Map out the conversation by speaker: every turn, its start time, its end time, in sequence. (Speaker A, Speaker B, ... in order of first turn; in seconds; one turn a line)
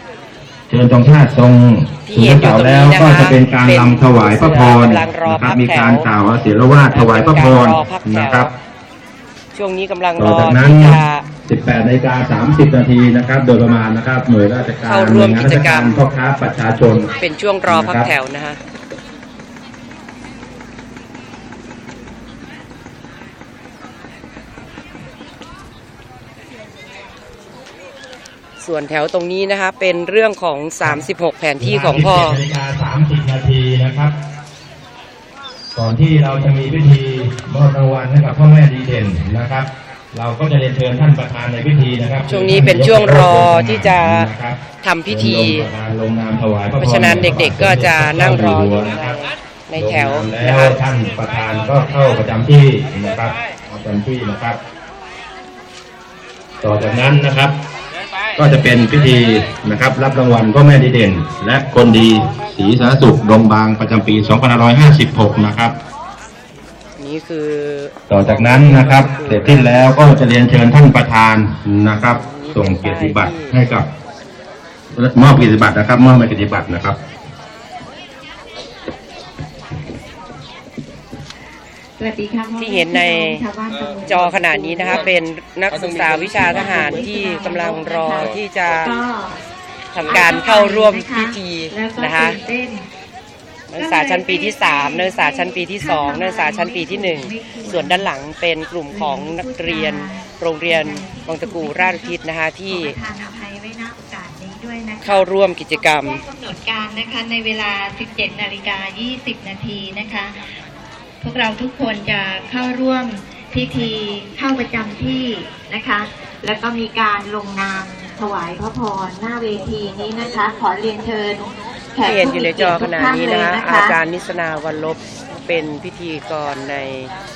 Speaker A: 0.7-8.5
Speaker B: 2.1-6.1
Speaker B: 6.9-8.5
Speaker B: 9.5-11.3
Speaker A: 10.2-17.1
Speaker B: 14.8-16.0
Speaker B: 17.2-18.6
Speaker A: 17.7-18.1
Speaker B: 28.6-32.4
Speaker A: 31.6-34.1
Speaker A: 35.8-49.2
Speaker B: 42.2-44.3
Speaker B: 44.8-45.7
Speaker B: 46.8-50.8
Speaker A: 49.8-54.6
Speaker A: 56.6-57.6
Speaker A: 58.4-65.8
Speaker B: 67.0-70.1
Speaker A: 68.1-73.9
Speaker B: 72.0-73.6
Speaker A: 75.0-77.0
Speaker C: 82.0-85.2
Speaker B: 82.6-83.5
Speaker B: 84.1-89.0
Speaker C: 85.8-89.4
Speaker B: 89.9-92.4
Speaker C: 90.1-92.9
Speaker B: 93.7-103.0
Speaker C: 93.8-98.1
Speaker C: 98.9-110.5
Speaker B: 105.0-106.2
Speaker C: 111.2-124.0
Speaker B: 122.0-127.1